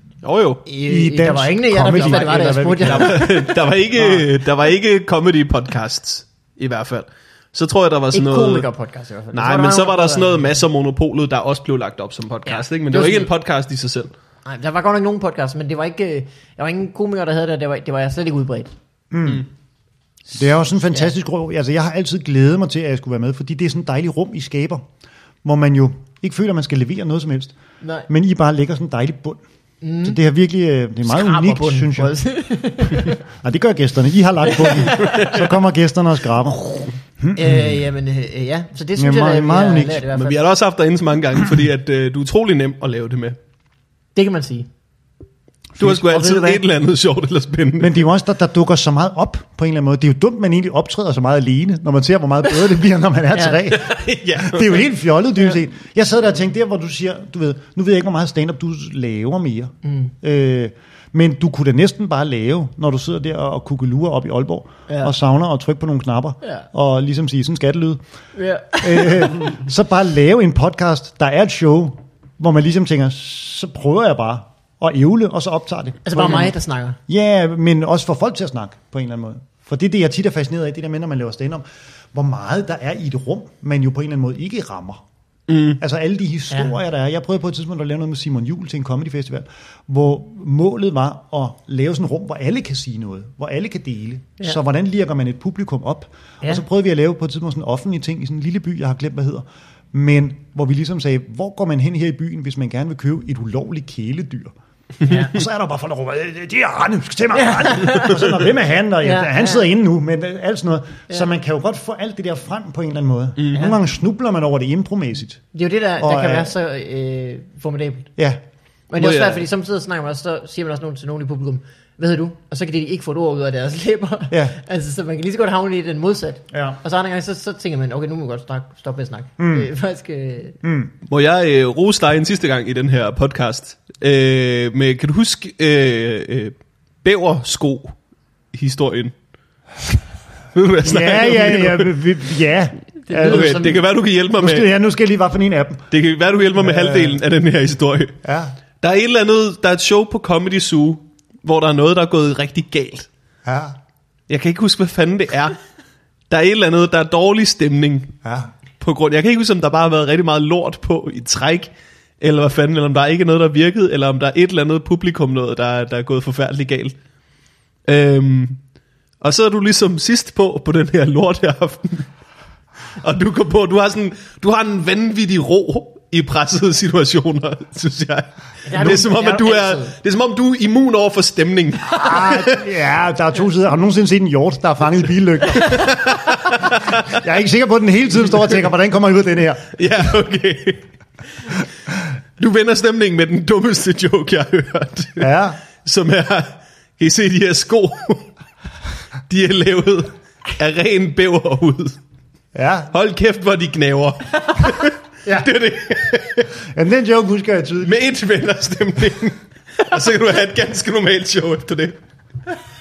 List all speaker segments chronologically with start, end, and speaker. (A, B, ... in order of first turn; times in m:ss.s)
0:00.2-0:00.6 A
0:00.6-0:03.3 B
0:00.8-0:04.3 C
0:02.0-0:08.7 A
0:08.1-0:10.6 B
0:09.3-0:14.1 A
0:12.5-0:13.3 B
0:14.5-0:18.7 B
0:19.1-0:19.5 C
0:20.3-0:24.9 C
0:20.7-0:21.1 B
0:25.4-0:27.5 C
0:27.8-0:28.1 B
0:28.1-0:29.4 C
0:29.8-0:30.2 B
0:30.0-0:32.2 C
0:31.1-0:33.2 B
0:33.4-0:37.8 C
0:34.5-0:35.4 B
0:35.0-0:35.3 A
0:36.7-0:40.5 B
0:39.0-0:40.1 C
0:40.1-0:43.4 A
0:44.2-0:44.7 B
0:45.8-0:46.6 C
0:45.8-0:48.0 A
0:46.1-0:46.6 B
0:47.8-1:08.0 C
0:53.3-0:53.8 B
0:53.8-0:54.9 A
0:59.8-1:00.1 B
1:04.9-1:05.1 B
1:08.4-1:09.6 B
1:08.8-1:16.5 C
1:16.0-1:17.0 B
1:17.1-1:25.0 C
1:25.5-1:25.8 A
1:25.8-1:44.5 C
1:45.0-1:45.4 B
1:45.1-1:55.4 C
1:47.3-1:48.3 B
1:49.0-1:49.7 B
1:53.4-1:53.7 A
1:55.5-1:58.1 B
1:56.0-1:56.5 C
1:58.9-2:10.6 B
1:59.0-1:59.4 A
2:04.3-2:04.6 C
2:06.5-2:06.8 C
2:09.4-2:09.7 C
2:10.6-2:10.9 C
2:11.1-2:17.9 A
2:18.5-2:19.1 A
2:20.5-2:22.0 A
2:20.8-2:23.8 C
2:23.1-2:23.8 B
2:23.2-2:24.7 A
2:24.4-2:25.9 C
2:25.9-2:28.2 A
2:26.6-2:27.2 C
2:28.2-2:28.6 C
2:28.8-2:33.1 A
2:33.4-2:33.8 C
2:34.3-2:35.6 A
2:36.3-2:38.2 A
2:38.2-2:38.5 C
2:38.8-2:47.0 A
2:47.9-2:48.6 A
2:49.2-2:52.1 A
2:53.0-3:02.7 A
2:58.7-3:00.0 B
3:01.9-3:09.7 C
3:05.6-3:07.2 A
3:09.8-3:10.8 A
3:12.4-3:15.3 A
3:15.2-3:15.6 C
3:15.8-3:18.3 A
3:19.3-3:22.0 A
3:22.6-3:22.9 C
3:22.9-3:26.5 A
3:26.6-3:28.0 C
3:27.8-3:32.0 A